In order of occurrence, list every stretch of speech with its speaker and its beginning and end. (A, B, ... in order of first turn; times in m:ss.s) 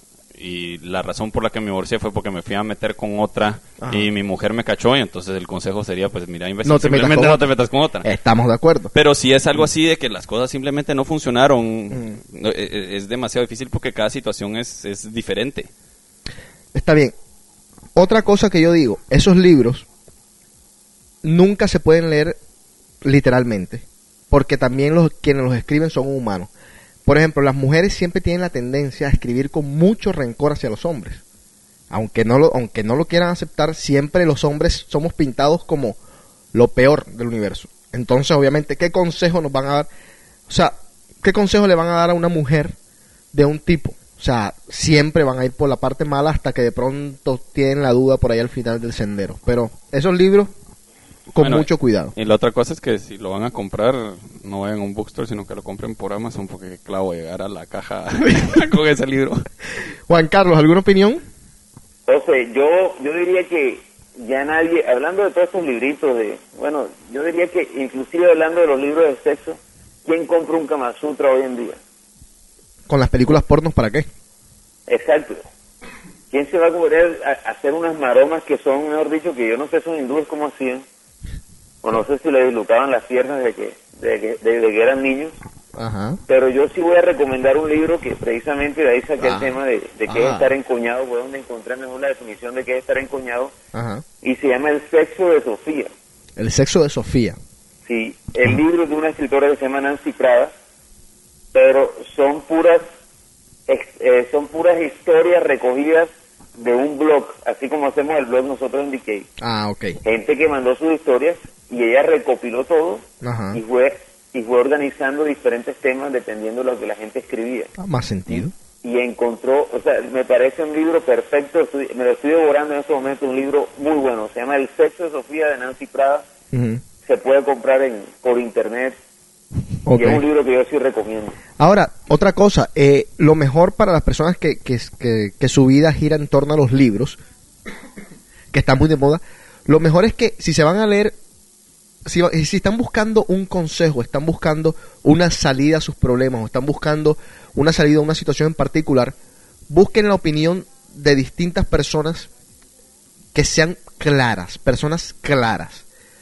0:00.3-0:08.0 A
0:03.8-0:04.1 B
0:06.6-0:07.4 B
0:08.0-0:08.9 B
0:08.9-0:15.7 A
0:11.9-0:12.2 B
0:16.7-0:17.1 B
0:17.9-0:19.8 B
0:21.2-0:22.4 B
0:23.0-0:26.5 B
0:27.0-0:31.2 B
0:31.9-0:36.0 B
0:36.5-0:39.9 B
0:40.5-0:42.8 B
0:43.3-0:50.5 B
0:51.3-0:52.1 B
0:51.4-0:59.4 A
1:00.1-1:01.2 B
1:02.1-1:11.8 C
1:12.9-1:14.1 B
1:14.9-1:15.4 C
1:16.3-1:20.8 C
1:21.8-1:25.4 C
1:25.8-1:26.2 B
1:26.3-1:33.5 C
1:29.2-1:29.5 B
1:30.1-1:30.5 B
1:33.7-1:34.0 B
1:34.2-1:35.9 C
1:36.4-1:37.4 B
1:37.8-1:40.5 C
1:41.5-1:42.8 C
1:43.7-1:49.3 C
1:49.4-1:50.0 B
1:50.0-1:57.7 C
1:53.2-1:53.6 B
1:57.8-1:58.5 B
1:58.3-2:06.2 C
2:06.5-2:06.8 B
2:07.0-2:09.0 C
2:09.8-2:10.2 B
2:09.9-2:11.4 C
2:11.6-2:17.2 B
2:18.5-2:21.2 B
2:22.0-2:29.1 B
2:29.7-2:32.3 B
2:33.3-2:35.8 B